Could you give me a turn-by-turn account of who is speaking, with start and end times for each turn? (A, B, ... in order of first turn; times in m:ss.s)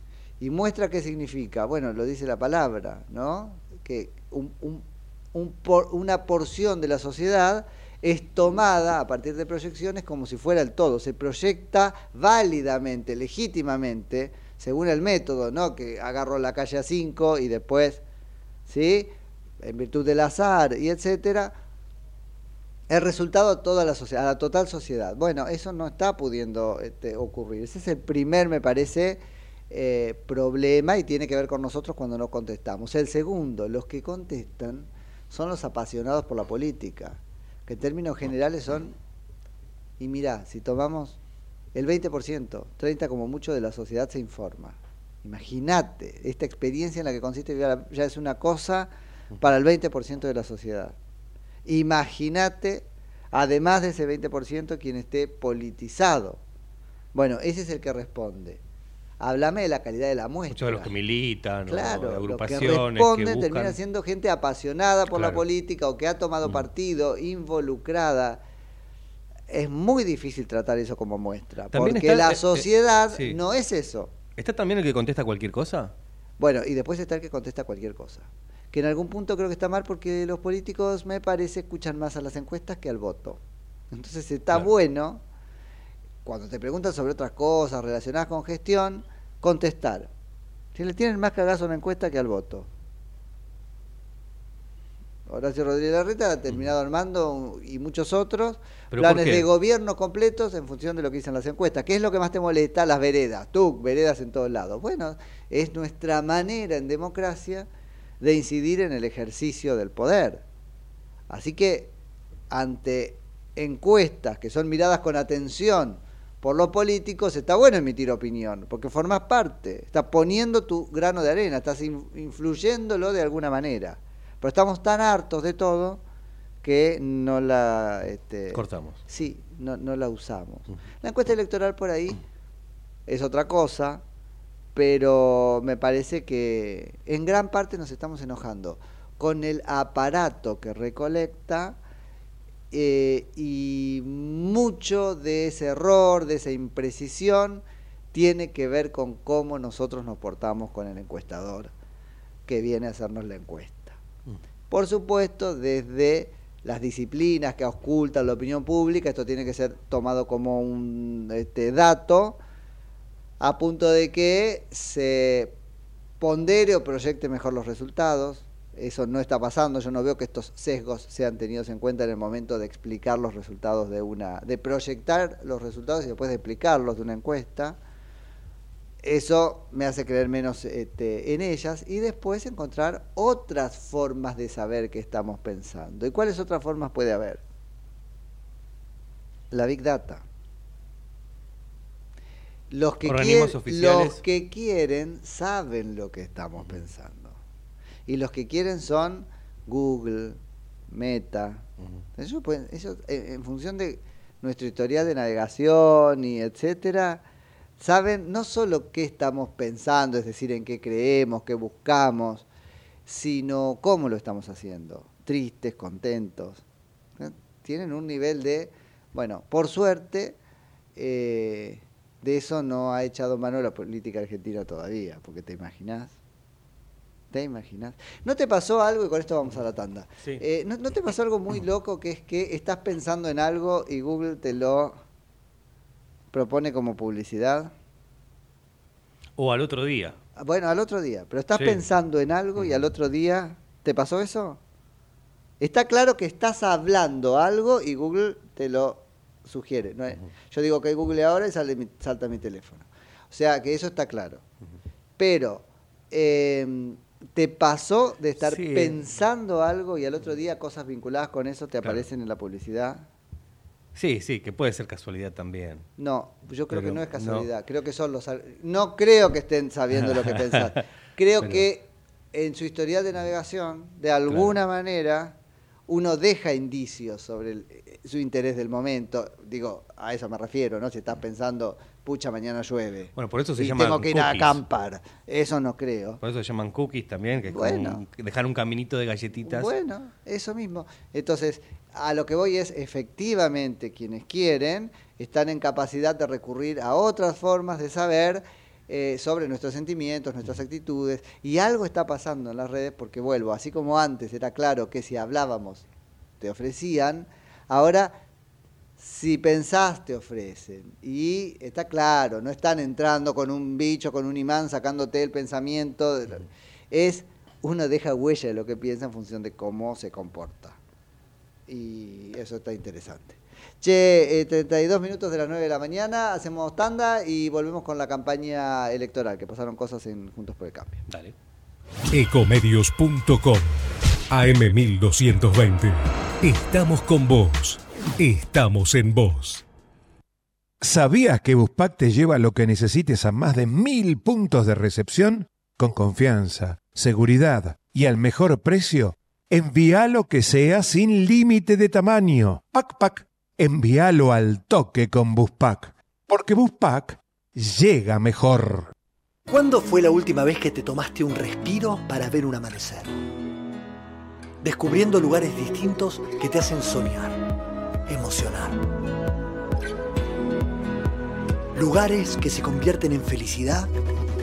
0:00.4-0:18.0 A
0:18.7-0:21.5 A
0:22.9-0:39.0 A
0:40.0-0:41.2 A
0:41.7-0:51.0 A
0:51.6-0:56.4 A
0:57.1-0:58.6 A
0:59.2-1:00.9 A
1:00.5-1:03.8 B
1:01.7-1:08.4 A
1:05.1-1:05.4 B
1:09.5-1:14.1 A
1:11.7-1:13.4 B
1:14.4-1:15.9 B
1:16.4-1:23.4 A
1:23.9-1:25.2 A
1:26.2-1:30.1 A
1:30.8-1:32.7 A
1:35.3-1:47.7 A
1:38.9-1:39.5 B
1:48.2-1:50.4 A
1:51.3-1:51.9 A
1:52.5-2:06.0 A
2:06.6-2:12.2 A
2:08.5-2:09.0 B
2:13.1-2:14.0 A
2:14.8-2:21.8 A
2:22.7-2:31.7 A
2:32.5-2:34.0 A
2:34.7-2:42.4 A
2:43.4-2:45.5 A
2:46.2-2:57.8 A
2:59.0-3:07.4 A
3:09.5-3:10.2 A
3:12.7-3:17.4 A
3:13.0-3:14.2 B
3:18.1-3:21.7 A
3:22.2-3:27.2 A
3:27.8-3:32.5 A
3:33.1-3:36.6 A
3:37.2-3:40.4 A
3:41.0-3:46.2 A
3:47.3-3:55.0 A
3:56.3-3:57.7 A
3:59.4-4:00.2 B
4:00.4-4:04.6 A
4:01.6-4:01.8 B
4:05.6-4:14.4 A
4:15.2-4:23.1 A
4:18.4-4:19.1 B
4:21.8-4:22.1 B
4:24.0-4:25.9 B
4:26.0-4:35.4 A
4:26.7-4:27.5 B
4:30.0-4:30.7 B
4:31.4-4:31.6 B
4:34.3-4:34.6 B
4:35.9-4:46.2 A
4:43.2-4:44.6 B
4:46.2-4:49.7 B
4:47.4-4:48.0 A
4:49.4-5:05.9 A
5:06.4-5:08.2 A
5:09.0-5:20.8 A
5:21.7-5:31.0 A
5:31.1-5:31.3 B
5:32.1-5:33.7 C
5:34.3-5:39.6 C
5:40.8-5:58.9 D
5:59.5-6:03.1 E
6:04.6-6:07.4 E
6:08.1-6:08.8 E
6:11.8-6:13.9 E